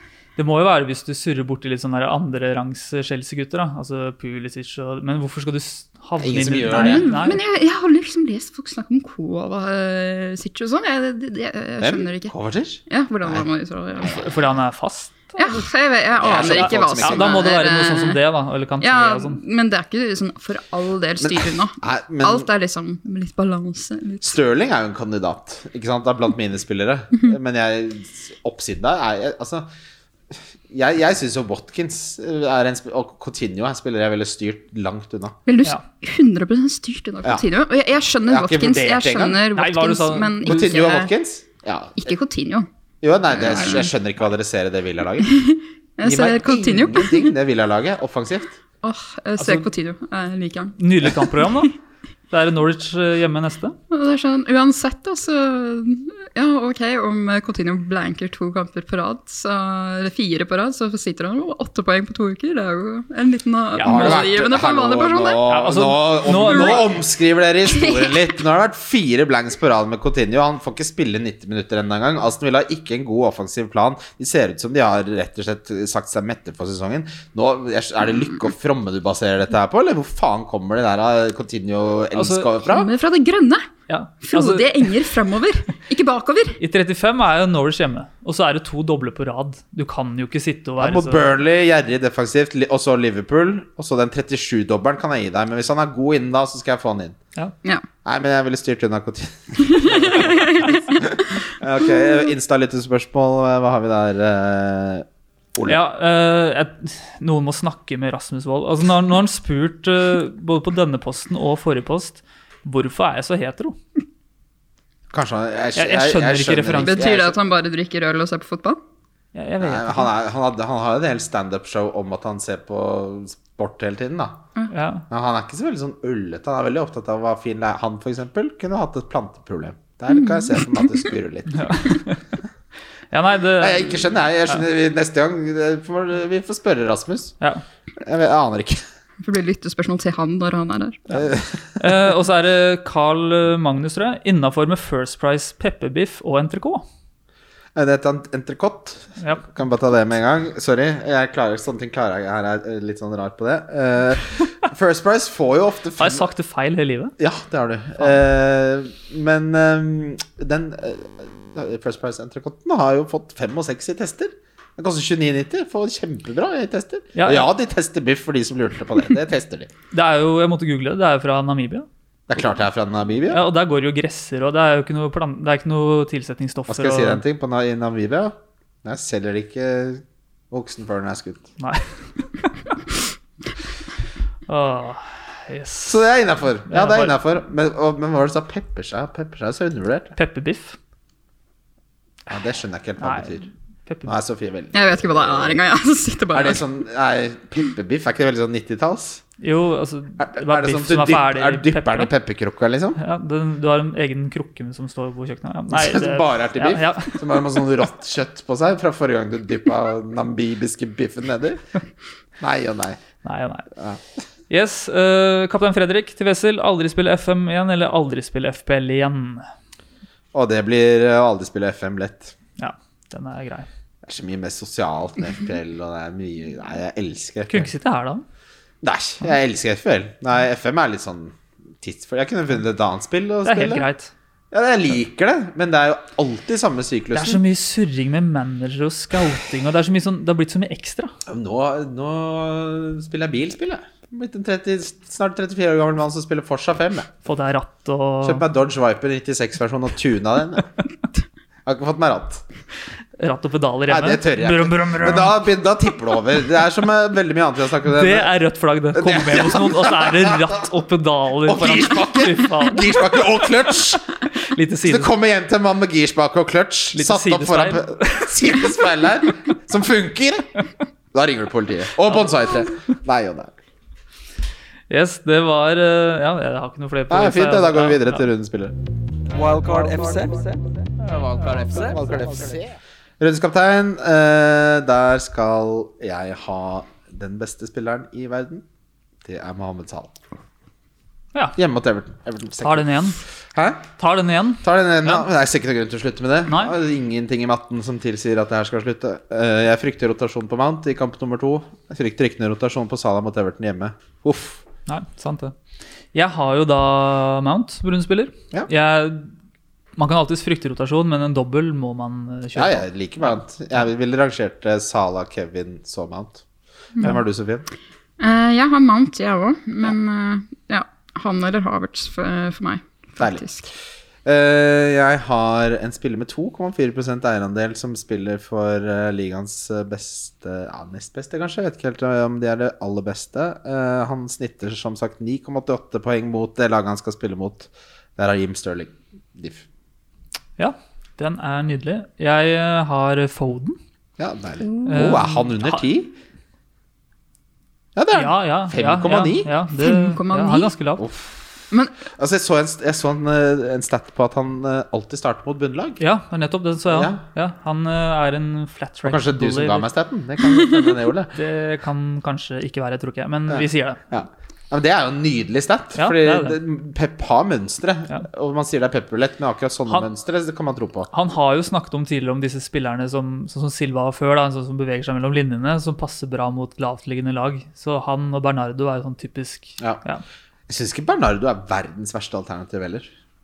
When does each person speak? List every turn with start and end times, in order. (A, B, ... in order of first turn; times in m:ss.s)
0:00.4-0:07.4 A
0:06.2-0:07.1 B
0:06.7-0:12.3 C
0:11.8-0:13.4 B
0:12.9-0:14.3 C
0:14.0-0:15.6 A
0:15.4-0:18.2 C
0:16.2-0:17.4 B
0:16.2-0:19.4 A
0:18.8-0:24.3 C
0:21.2-0:22.5 B
0:24.2-0:29.7 B
0:30.3-0:35.4 B
0:35.4-0:41.1 C
0:38.3-0:39.4 B
0:39.5-0:40.6 A
0:40.4-0:42.1 B
0:42.0-0:42.7 C
0:43.0-0:45.3 B
0:43.3-0:43.9 C
0:45.2-0:47.3 C
0:46.0-0:48.6 B
0:48.8-0:51.6 C
0:49.4-0:49.7 A
0:50.8-0:51.7 A
0:52.3-0:53.8 A
0:53.9-1:05.4 C
1:03.8-1:04.3 A
1:03.8-1:22.9 B
1:05.5-1:06.8 A
1:06.4-1:06.8 C
1:07.7-1:08.2 C
1:22.1-1:22.5 A
1:22.6-1:23.7 C
1:23.9-1:24.9 A
1:24.2-1:26.6 C
1:26.6-1:31.3 A
1:30.8-1:37.2 B
1:38.0-1:45.8 B
1:39.7-1:40.6 C
1:39.9-1:40.8 A
1:45.6-1:53.8 A
1:55.1-1:57.4 B
1:55.8-1:57.0 A
1:56.8-1:58.8 C
1:59.3-2:00.1 A
1:59.6-2:04.4 B
2:04.7-2:05.0 A
2:05.1-2:11.7 B
2:10.1-2:10.9 C
2:11.5-2:12.2 A
2:13.1-2:14.6 A
2:13.6-2:17.3 B
2:18.0-2:18.8 B
2:19.2-2:21.0 C
2:21.1-2:21.8 B
2:21.8-2:26.8 A
2:27.7-2:36.2 B
2:36.0-2:37.1 A
2:37.2-2:49.7 B
2:47.1-2:47.5 A
2:49.9-2:51.9 A
2:52.3-2:53.4 B
2:53.3-2:57.2 A
2:56.7-3:01.5 B
3:01.6-3:02.5 A
3:04.5-3:06.0 A
3:05.8-3:10.1 B
3:06.7-3:07.1 A
3:10.1-3:10.8 A
3:12.3-3:13.5 B
3:13.0-3:14.1 A
3:14.0-3:15.6 B
3:14.7-3:16.6 C
3:16.3-3:19.2 B
3:19.4-3:22.1 A
3:20.2-3:23.0 B
3:23.0-3:27.4 A
3:25.7-3:31.6 B
3:32.4-3:33.0 B
3:33.2-3:33.7 A
3:33.8-3:34.0 B
3:34.5-3:39.5 A
3:40.3-3:42.3 B
3:42.6-3:43.7 A
3:44.0-3:47.7 B
3:47.5-3:48.2 A
3:48.8-3:53.8 B
3:53.4-3:54.1 A
3:54.5-3:57.4 B
3:57.1-4:01.1 A
4:01.3-4:07.1 B
4:07.2-4:08.4 A
4:08.2-4:10.7 B
4:11.6-4:12.4 B
4:13.2-4:15.4 A
4:13.9-4:18.3 B
4:17.9-4:23.2 A
4:18.9-4:20.6 B
4:21.4-4:24.0 B
4:24.4-4:25.1 A
4:24.8-4:30.5 B
4:26.9-4:28.3 A
4:31.1-4:33.5 B
4:34.9-4:38.2 A
4:37.1-4:38.7 B
4:39.3-4:42.6 D
4:41.9-4:48.6 B
4:49.2-4:50.1 B
4:51.6-4:53.0 B
4:52.6-4:53.2 A
4:53.5-4:53.8 B
4:54.0-4:55.2 A
4:54.6-5:04.6 B
4:56.5-4:56.7 A
5:04.9-5:05.5 A
5:06.1-5:09.3 A
5:10.0-5:13.4 A
5:12.5-5:16.4 B
5:17.0-5:17.6 B
5:18.2-5:23.7 C
5:24.2-5:39.6 B
5:40.6-5:43.8 A
5:44.2-5:46.2 B
5:44.6-5:45.2 C
5:44.8-5:45.8 A
5:48.0-5:49.5 B
5:48.1-5:51.0 A
5:49.8-5:50.7 C
5:51.0-5:51.4 B
5:52.1-5:56.0 B
5:56.0-5:59.8 A
5:56.9-5:57.2 B
5:59.0-6:01.3 B
6:01.3-6:04.0 A
6:03.5-6:11.1 B
6:06.0-6:06.6 A
6:11.1-6:20.2 A
6:20.7-6:23.1 B